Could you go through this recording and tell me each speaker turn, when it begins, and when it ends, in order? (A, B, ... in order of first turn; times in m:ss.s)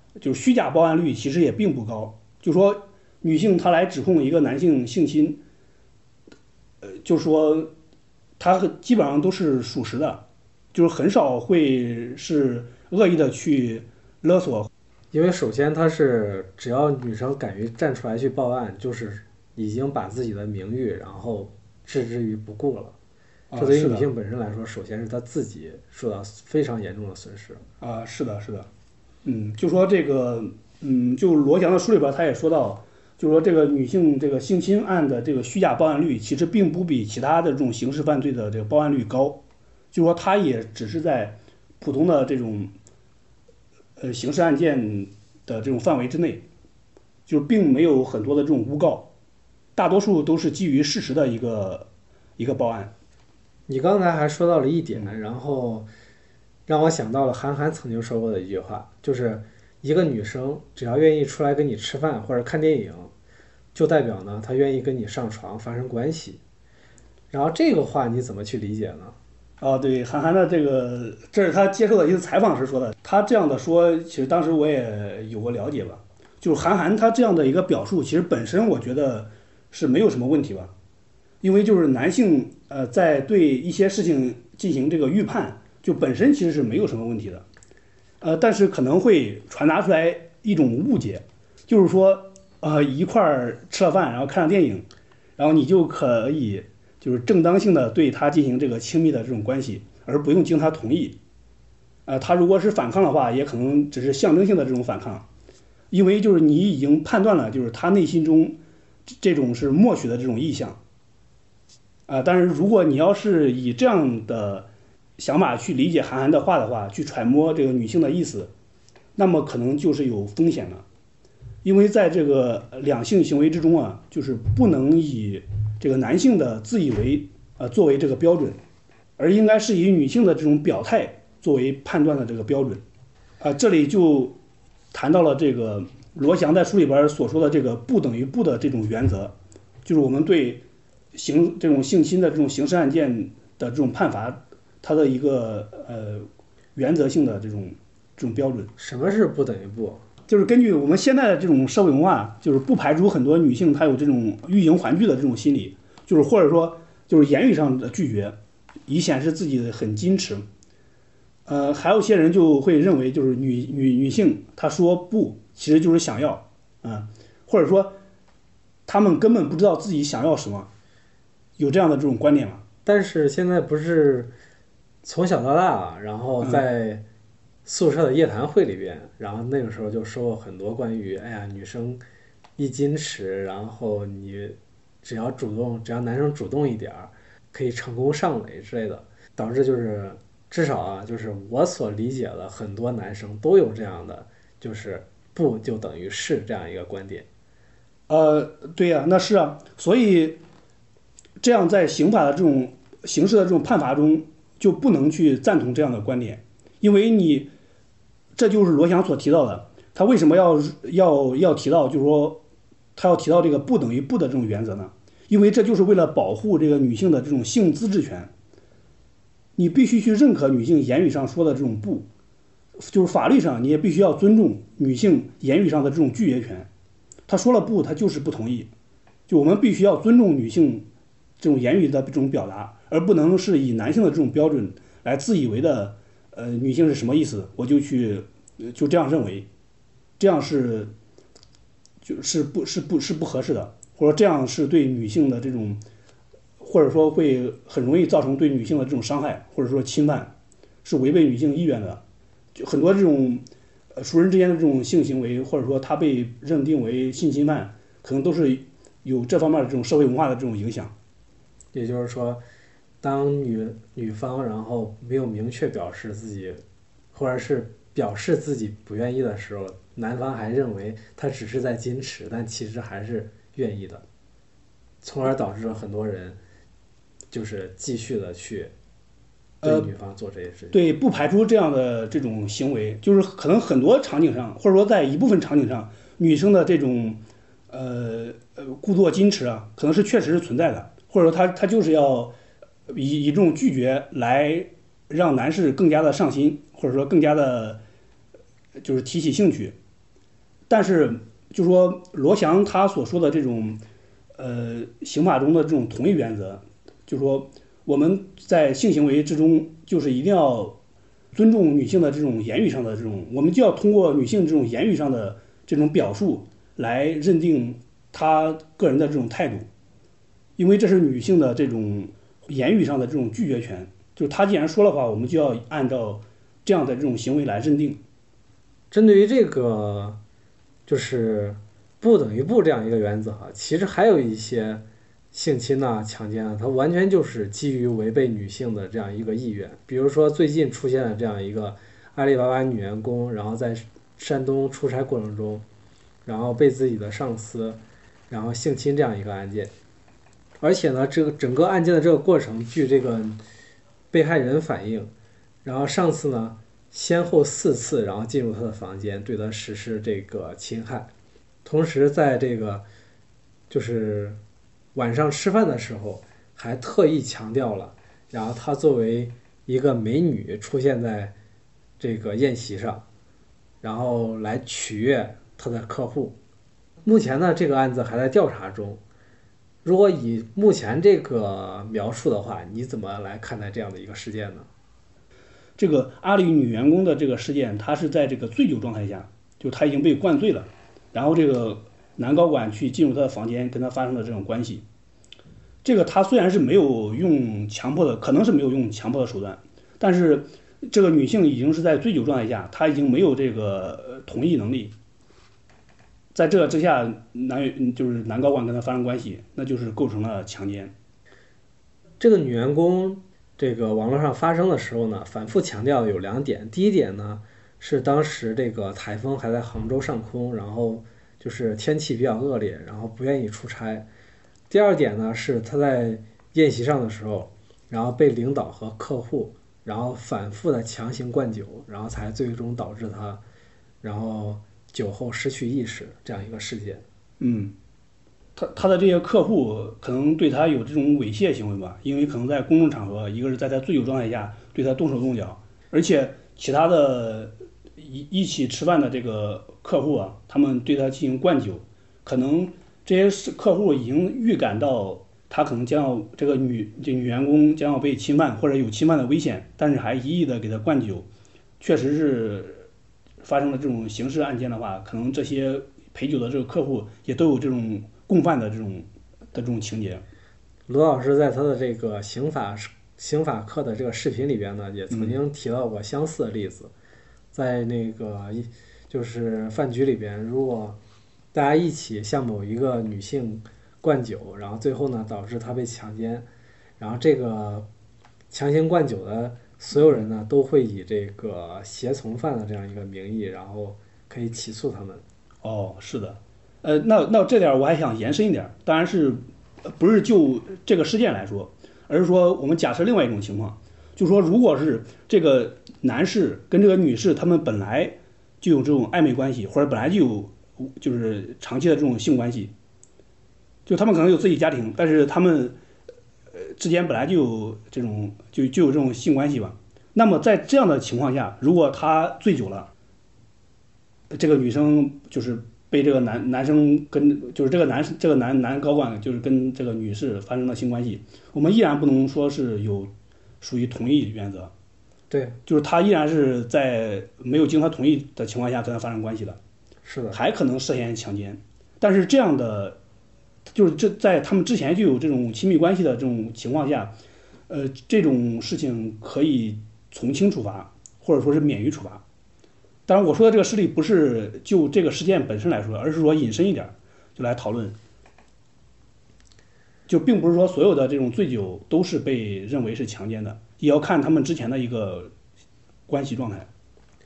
0:00.2-0:05.4 A
0:06.8-0:07.7 A
0:08.4-0:10.2 A
0:10.7-0:14.7 A
0:15.1-0:23.0 B
0:23.5-0:24.1 A
0:23.6-0:27.6 B
0:27.8-0:28.7 A
0:29.2-0:42.7 A
0:44.0-0:46.4 A
0:47.3-0:49.1 A
0:49.8-0:52.9 A
0:53.7-0:55.9 B
0:56.7-1:03.1 B
1:03.7-1:06.4 B
1:07.3-1:09.2 B
1:09.6-1:20.7 A
1:21.4-1:27.5 A
1:28.2-1:34.9 A
1:35.4-1:41.2 A
1:42.1-1:45.3 A
1:45.9-1:48.6 A
1:49.1-1:50.8 A
1:52.1-1:58.5 A
1:59.2-2:00.8 A
2:01.6-2:08.6 A
2:09.2-2:12.8 A
2:13.4-2:14.4 A
2:14.9-2:19.3 A
2:19.8-2:28.7 A
2:28.8-2:30.0 B
2:30.3-2:38.4 A
2:38.9-2:40.4 A
2:41.5-2:48.0 A
2:48.9-2:50.7 A
2:51.6-2:52.6 A
2:52.8-2:54.3 B
2:55.0-2:57.0 B
2:57.6-3:02.0 B
3:02.6-3:17.3 B
3:18.1-3:20.4 A
3:21.4-3:27.5 A
3:28.4-3:32.4 A
3:33.0-3:38.3 A
3:39.6-3:42.1 A
3:42.8-3:46.7 A
3:47.3-3:48.7 A
3:49.3-3:50.8 A
3:51.4-3:59.5 A
4:00.2-4:00.9 A
4:02.0-4:05.8 A
4:06.6-4:10.3 A
4:10.8-4:12.0 A
4:12.6-4:20.9 A
4:21.7-4:22.4 B
4:23.0-4:26.6 B
4:27.1-4:34.0 B
4:35.0-4:36.4 B
4:37.3-4:38.7 B
4:39.6-4:39.9 A
4:39.6-4:40.8 B
4:40.7-4:52.4 A
4:52.9-4:57.8 A
4:58.8-4:59.8 A
5:00.7-5:03.8 A
5:04.4-5:10.8 A
5:11.3-5:19.7 A
5:20.6-5:28.0 A
5:28.9-5:30.2 B
5:30.9-5:45.6 B
5:46.2-5:49.7 B
5:50.6-5:53.4 B
5:54.1-5:55.1 B
5:55.6-6:01.1 B
6:01.6-6:02.8 B
6:03.7-6:04.4 B
6:04.9-6:11.3 B
6:12.0-6:13.0 B
6:13.8-6:16.4 B
6:17.0-6:19.0 B
6:19.8-6:24.7 B
6:25.8-6:34.8 A
6:35.8-6:44.9 A
6:46.3-6:50.9 A
6:52.2-7:04.1 B
7:04.7-7:13.4 B
7:14.0-7:17.0 B
7:17.4-7:17.7 A
7:18.6-7:41.3 A
7:41.8-7:42.9 A
7:43.4-7:50.2 A
7:50.9-7:56.9 B
7:55.1-7:55.4 A
7:57.5-8:01.0 B
8:01.5-8:06.5 B
8:07.0-8:07.9 B
8:08.5-8:15.2 B
8:15.6-8:32.7 A
8:33.9-8:35.8 A
8:36.5-8:42.9 A
8:44.3-8:54.7 A
8:55.3-8:55.6 B
8:55.7-8:59.6 A
9:00.0-9:00.4 B
9:00.3-9:03.0 A
9:03.7-9:07.1 A
9:07.7-9:12.2 A
9:13.1-9:18.0 A
9:20.1-9:25.3 A
9:26.1-9:26.7 A